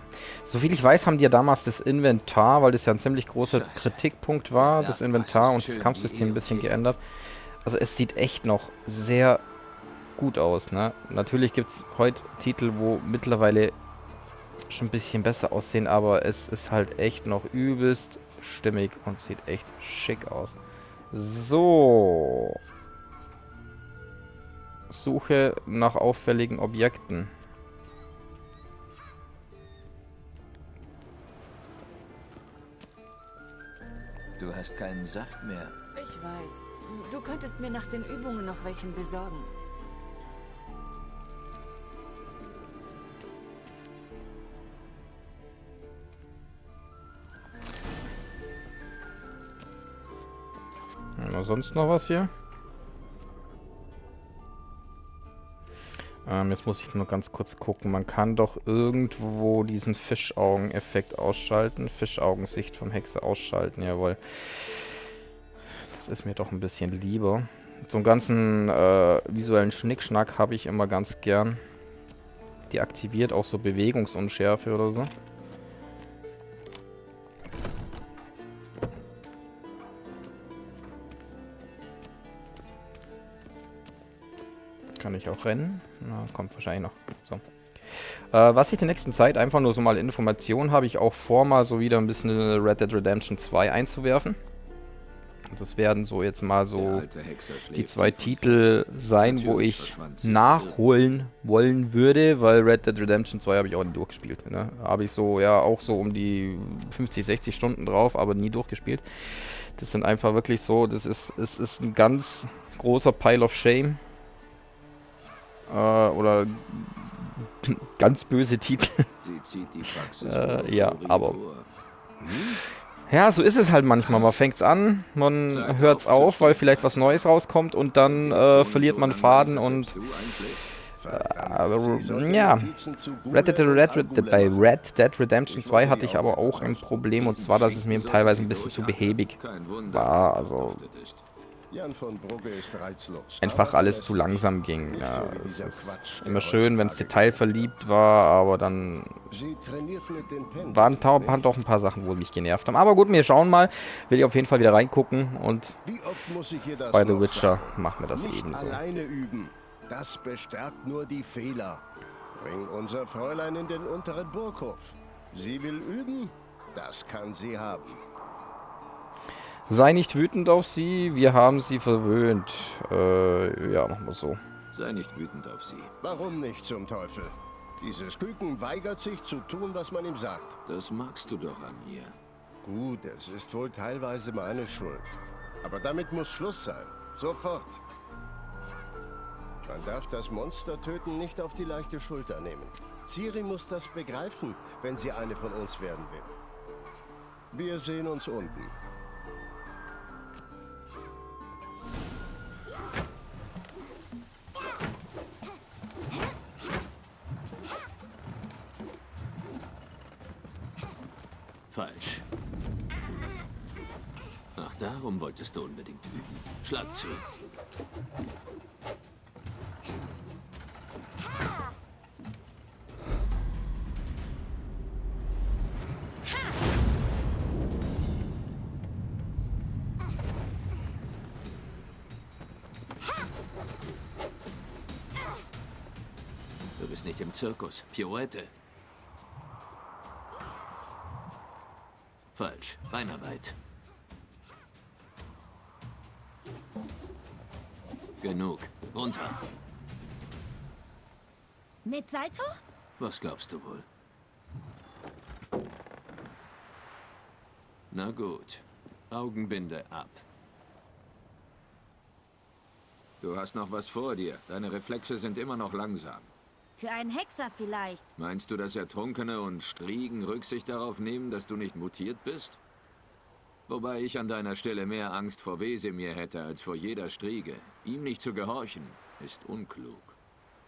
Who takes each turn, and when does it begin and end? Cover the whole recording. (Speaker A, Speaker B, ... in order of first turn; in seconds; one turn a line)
Speaker A: 0.4-7.0
Speaker B: 3.4-6.8
Speaker A: 7.7-9.4
Speaker A: 10.2-13.8
Speaker A: 14.7-20.6
Speaker A: 21.1-22.6
Speaker A: 24.9-27.3
Speaker B: 34.4-35.8
Speaker C: 36.0-39.5
Speaker A: 51.2-52.3
Speaker A: 56.2-64.7
Speaker A: 65.9-71.6
Speaker A: 72.7-75.1
Speaker A: 85.0-87.4
Speaker A: 88.3-94.4
Speaker A: 95.5-97.1
Speaker B: 96.7-100.8
Speaker A: 97.7-114.0
Speaker A: 115.7-119.1
Speaker B: 119.2-121.7
Speaker A: 120.0-121.4
Speaker D: 122.2-122.6
Speaker A: 123.1-130.0
Speaker B: 124.0-124.5
Speaker B: 125.5-127.3
Speaker B: 128.0-130.8
Speaker D: 131.0-134.7
Speaker A: 131.1-132.7
Speaker A: 133.3-140.8
Speaker D: 135.5-137.0
Speaker B: 137.2-141.2
Speaker D: 141.7-147.7
Speaker A: 143.4-149.1
Speaker D: 149.3-151.5
Speaker A: 150.6-155.8
Speaker D: 155.8-168.0
Speaker A: 156.9-158.8
Speaker A: 169.7-174.4
Speaker B: 174.7-175.9
Speaker D: 176.0-180.6
Speaker B: 180.7-182.2
Speaker D: 182.6-187.8
Speaker D: 189.6-196.4
Speaker D: 197.5-198.7
Speaker B: 211.7-212.3
Speaker B: 214.6-217.2
Speaker B: 236.8-238.5
Speaker B: 242.3-243.6
Speaker B: 248.2-249.4
Speaker E: 251.8-252.6
Speaker B: 253.0-253.9
Speaker B: 257.9-260.2
Speaker B: 263.2-266.3
Speaker E: 266.8-268.1
Speaker B: 268.2-272.6
Speaker B: 273.7-280.2